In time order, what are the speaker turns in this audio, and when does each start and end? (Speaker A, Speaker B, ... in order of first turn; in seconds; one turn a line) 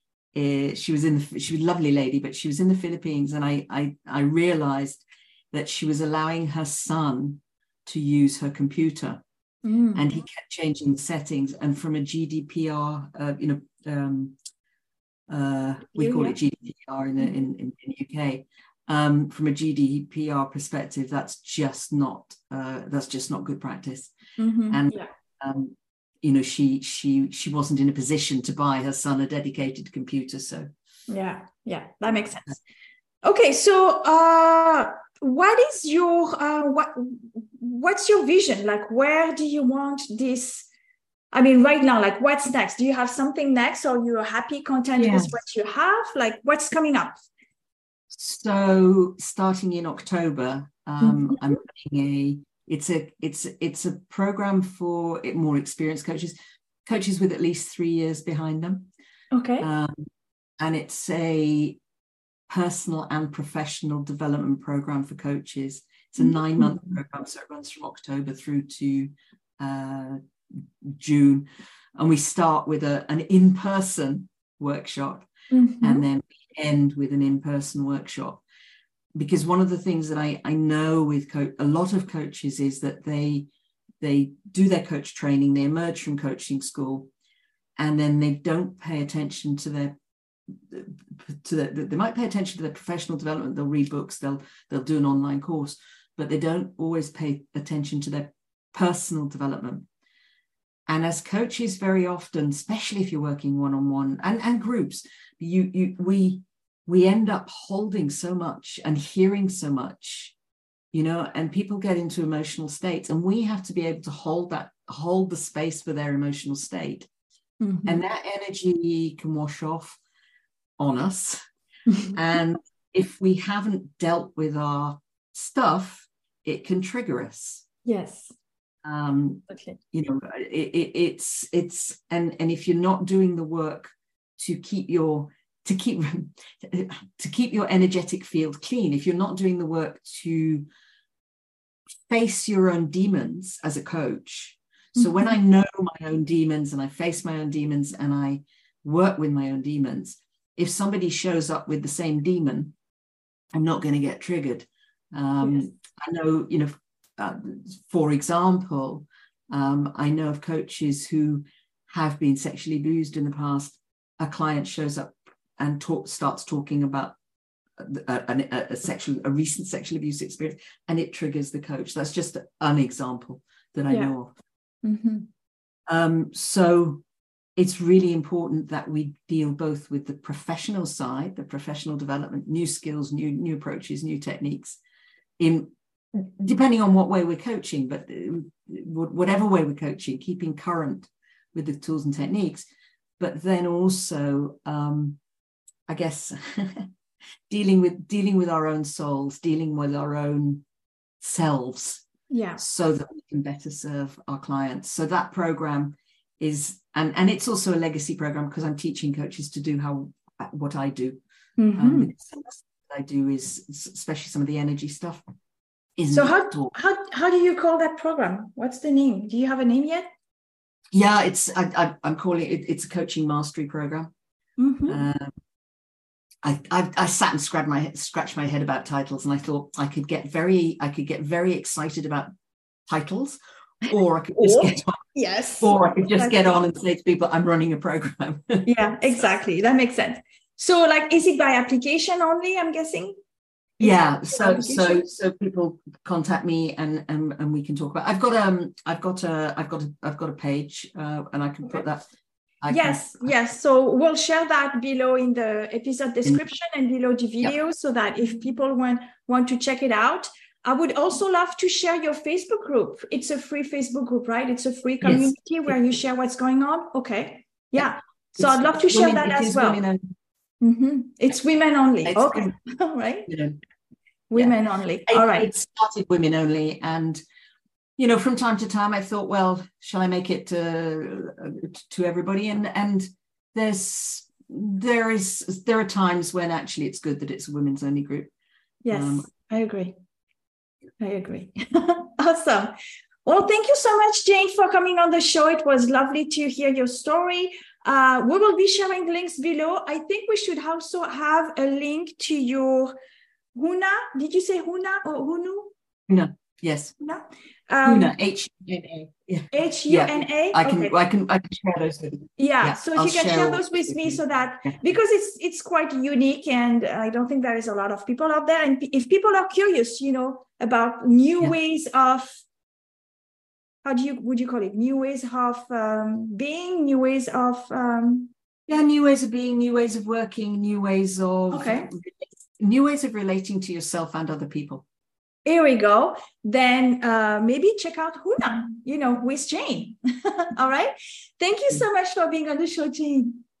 Speaker A: 0.3-9.2
Speaker B: 9.6-10.0
Speaker A: 9.9-14.3
Speaker A: 15.3-24.1
Speaker B: 15.9-16.4
Speaker B: 24.4-25.1
Speaker A: 24.7-30.7
Speaker B: 31.1-32.6
Speaker B: 33.2-40.7
Speaker B: 41.3-47.2
Speaker A: 45.0-45.3
Speaker A: 48.1-58.9
Speaker B: 51.0-51.4
Speaker B: 59.3-59.7
Speaker A: 59.6-60.1
Speaker A: 60.6-61.8
Speaker A: 62.5-70.2
Speaker B: 66.2-66.7
Speaker A: 70.8-71.5
Speaker A: 72.0-75.3
Speaker B: 75.5-76.0
Speaker A: 75.8-78.4
Speaker A: 79.2-83.5
Speaker A: 84.0-87.1
Speaker A: 87.8-90.0
Speaker A: 90.5-99.9
Speaker A: 100.9-110.3
Speaker A: 110.9-117.1
Speaker B: 117.6-118.0
Speaker A: 117.8-120.0
Speaker A: 120.8-121.4
Speaker B: 121.9-122.2
Speaker A: 122.1-127.6
Speaker B: 127.8-128.3
Speaker A: 128.8-140.7
Speaker B: 129.5-129.8
Speaker A: 142.1-152.7
Speaker B: 144.9-145.4
Speaker A: 153.5-167.2
Speaker A: 167.8-174.3
Speaker B: 174.8-175.3
Speaker A: 175.9-177.0
Speaker A: 177.6-184.8
Speaker A: 185.4-192.7
Speaker A: 193.2-195.2
Speaker A: 195.9-196.9
Speaker A: 197.5-200.6
Speaker A: 201.2-202.0
Speaker B: 202.3-202.6
Speaker A: 202.6-211.2
Speaker B: 211.6-212.1
Speaker A: 211.7-215.2
Speaker A: 216.0-216.7
Speaker B: 216.1-220.0
Speaker A: 220.9-224.1
Speaker B: 224.6-225.0
Speaker A: 224.9-225.3
Speaker A: 226.4-232.3
Speaker A: 232.9-235.0
Speaker B: 234.4-236.4
Speaker A: 235.6-239.3
Speaker B: 238.6-243.1
Speaker A: 243.8-252.0
Speaker B: 243.8-245.0
Speaker A: 252.6-253.3
Speaker B: 252.7-269.8
Speaker A: 265.0-265.3
Speaker A: 267.8-270.0
Speaker B: 270.6-273.3
Speaker A: 272.0-272.5
Speaker A: 273.3-273.6
Speaker B: 274.3-275.5
Speaker A: 275.1-277.2
Speaker A: 278.0-288.3
Speaker B: 288.8-289.9
Speaker A: 288.9-289.3
Speaker B: 291.0-292.7
Speaker B: 293.2-302.9
Speaker B: 303.5-305.7
Speaker A: 306.1-306.9
Speaker B: 307.0-308.1
Speaker A: 307.8-314.8
Speaker B: 309.5-310.9
Speaker B: 312.4-322.4
Speaker B: 323.8-328.3
Speaker A: 328.7-334.8
Speaker B: 331.5-331.9
Speaker B: 335.4-343.4